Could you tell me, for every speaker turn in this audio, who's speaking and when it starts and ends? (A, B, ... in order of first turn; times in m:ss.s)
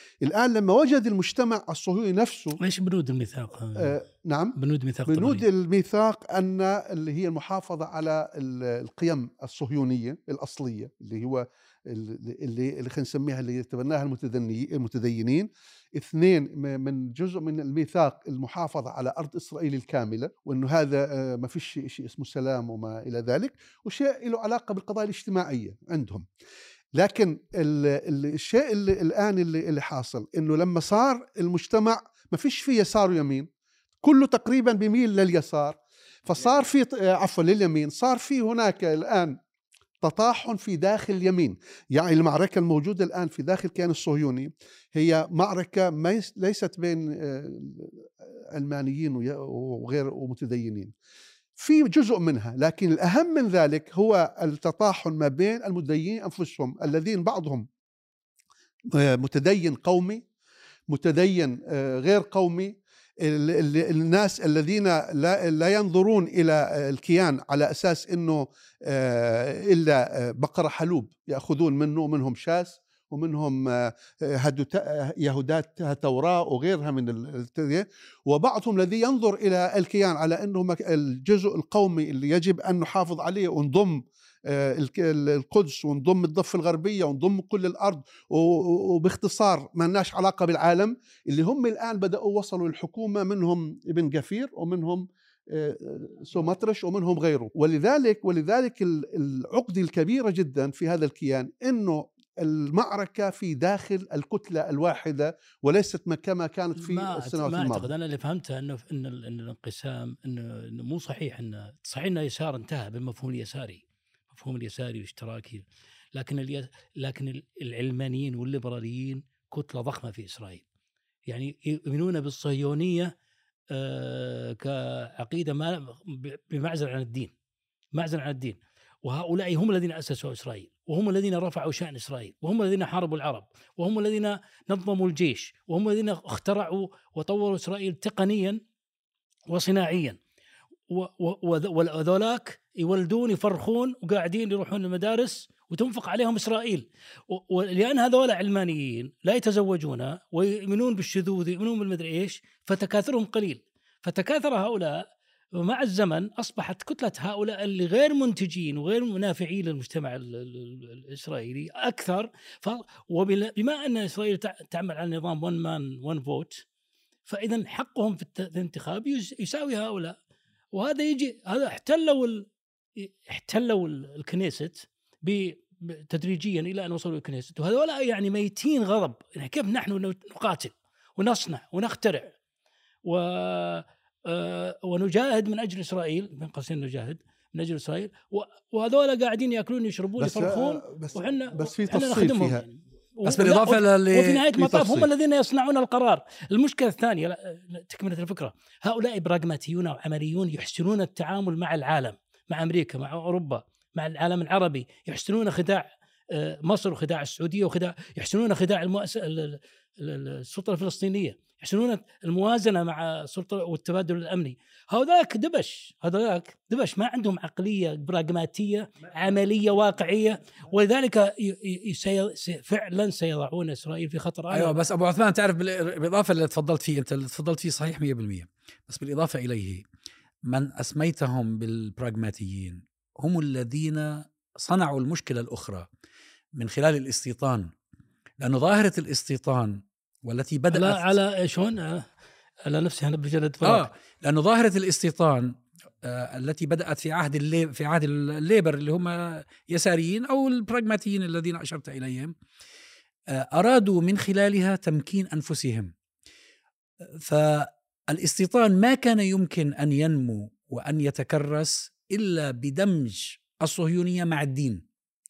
0:00.2-0:02.6 A
0:02.6-0:04.0 B
0:03.8-0:04.6 A
0:04.6-0:05.4 B
0:05.1-0:26.2 A
0:26.9-0:33.5 A
0:34.0-0:39.4 A
0:40.0-0:50.9 A
0:51.6-0:57.6 A
0:58.9-1:00.2 A
1:00.9-1:47.9 A
1:46.8-2:00.6 B
2:01.3-2:03.1 B
2:03.7-2:07.3 B
2:07.9-2:18.6 B
2:19.5-2:20.2 B
2:20.9-2:35.0 B
2:35.6-2:46.6 B
2:47.3-2:50.2 B
2:50.7-3:02.3 B
3:03.0-3:44.8 B
3:10.2-3:12.6 A
3:13.2-3:14.4 C
3:14.6-3:15.1 A
3:44.5-3:49.8 C
3:50.4-3:55.9 C
3:56.6-3:57.7 C
3:58.4-4:01.1 C
4:00.7-4:02.1 B
4:02.6-4:03.9 B
4:03.6-4:12.3 C
4:13.3-4:15.9 C
4:17.2-4:24.8 C